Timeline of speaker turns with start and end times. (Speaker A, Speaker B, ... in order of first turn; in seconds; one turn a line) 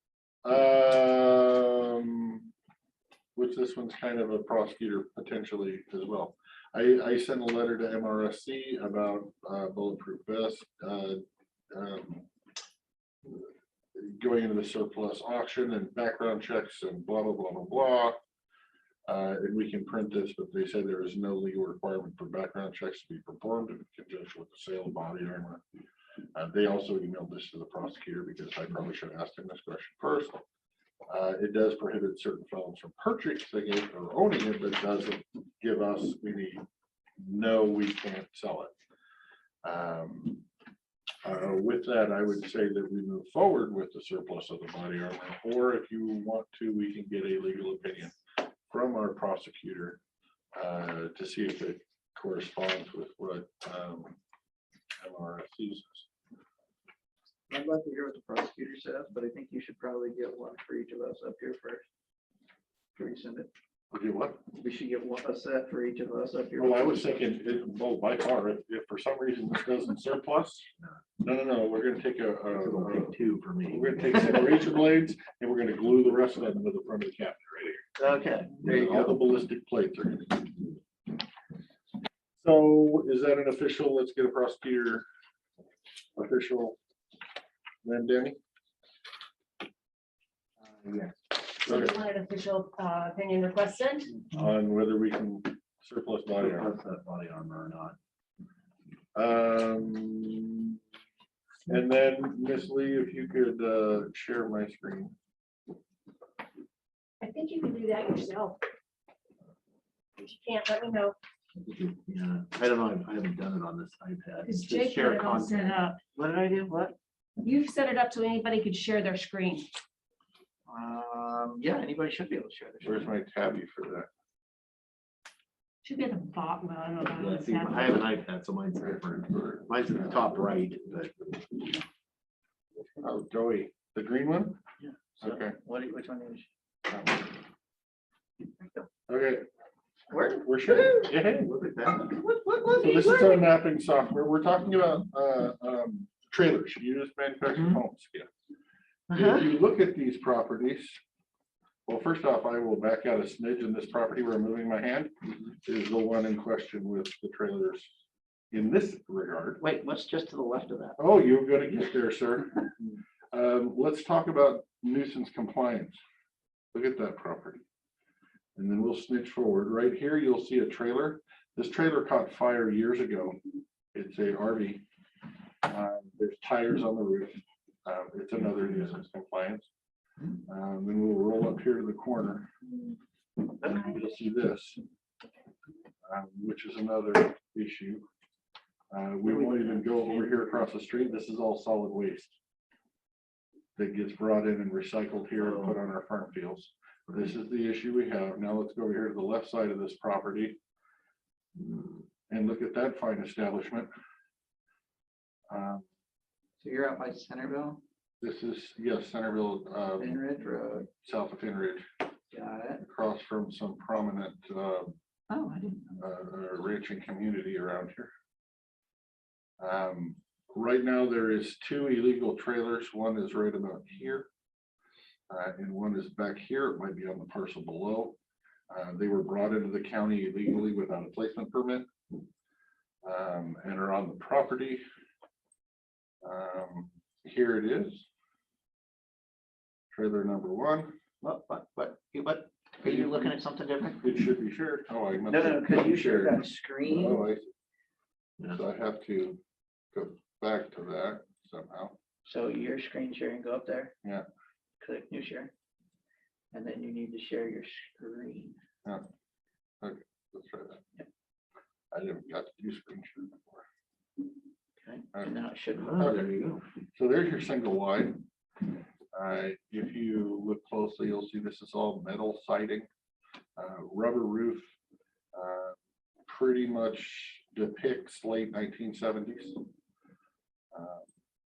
Speaker A: 0.4-2.5
Speaker A: 3.3-12.3
Speaker A: 13.2-18.2
Speaker A: 19.1-25.6
Speaker A: 26.3-30.4
Speaker A: 31.1-36.6
Speaker A: 37.2-38.7
Speaker A: 39.6-40.5
Speaker A: 41.2-48.2
Speaker A: 48.7-50.0
Speaker A: 50.5-54.2
Speaker A: 55.0-56.1
Speaker B: 57.5-61.9
Speaker B: 63.0-63.5
Speaker A: 63.9-64.4
Speaker B: 64.5-67.2
Speaker A: 66.6-70.7
Speaker A: 71.2-77.8
Speaker C: 72.5-74.4
Speaker B: 78.0-79.0
Speaker A: 78.6-80.7
Speaker A: 82.4-85.0
Speaker A: 86.2-86.8
Speaker A: 87.8-88.4
Speaker C: 90.6-91.3
Speaker D: 91.6-94.2
Speaker A: 94.3-96.7
Speaker C: 96.3-98.0
Speaker A: 99.1-100.8
Speaker A: 101.7-105.1
Speaker D: 107.2-108.6
Speaker D: 110.2-111.2
Speaker C: 111.6-115.8
Speaker D: 114.4-116.0
Speaker B: 116.2-116.9
Speaker D: 117.4-119.7
Speaker B: 120.7-123.1
Speaker A: 122.8-124.1
Speaker D: 125.8-128.0
Speaker C: 127.2-131.7
Speaker A: 132.9-134.6
Speaker B: 134.8-136.5
Speaker A: 135.2-135.6
Speaker B: 138.6-138.8
Speaker A: 139.1-139.4
Speaker B: 140.1-143.4
Speaker A: 140.4-141.5
Speaker A: 142.8-148.3
Speaker B: 149.1-149.5
Speaker A: 149.1-151.0
Speaker A: 151.9-157.9
Speaker A: 158.5-159.6
Speaker B: 159.6-161.0
Speaker A: 161.0-166.0
Speaker A: 166.7-167.6
Speaker A: 168.6-173.4
Speaker A: 173.9-174.8
Speaker A: 175.6-179.7
Speaker A: 180.4-182.5
Speaker B: 183.6-183.9
Speaker A: 183.6-184.8
Speaker A: 186.0-188.0
Speaker A: 188.9-192.3
Speaker B: 189.2-190.7
Speaker A: 193.8-200.6
Speaker C: 195.4-195.8
Speaker C: 197.1-197.3
Speaker C: 201.6-202.1
Speaker A: 202.3-203.9
Speaker A: 205.5-205.8
Speaker B: 206.6-207.8
Speaker A: 208.2-210.2
Speaker B: 210.0-210.9
Speaker A: 210.9-211.8
Speaker B: 212.3-212.8
Speaker A: 212.8-214.9
Speaker B: 215.3-215.9
Speaker A: 216.0-218.1
Speaker A: 219.6-224.3
Speaker A: 225.3-228.2
Speaker A: 228.7-231.9
Speaker A: 233.0-234.8
Speaker A: 236.2-238.1
Speaker A: 239.9-240.9
Speaker B: 241.2-244.1
Speaker A: 242.8-243.4
Speaker A: 244.0-247.4
Speaker B: 245.3-247.2
Speaker A: 248.5-249.4
Speaker A: 249.9-251.9
Speaker B: 252.2-253.9
Speaker B: 254.8-255.5
Speaker B: 256.5-258.6
Speaker A: 259.8-260.8
Speaker A: 261.9-263.6
Speaker B: 264.8-266.1
Speaker C: 265.8-266.6
Speaker A: 265.9-268.2
Speaker A: 269.1-272.9
Speaker A: 273.6-274.7
Speaker A: 275.3-279.6
Speaker A: 280.7-281.0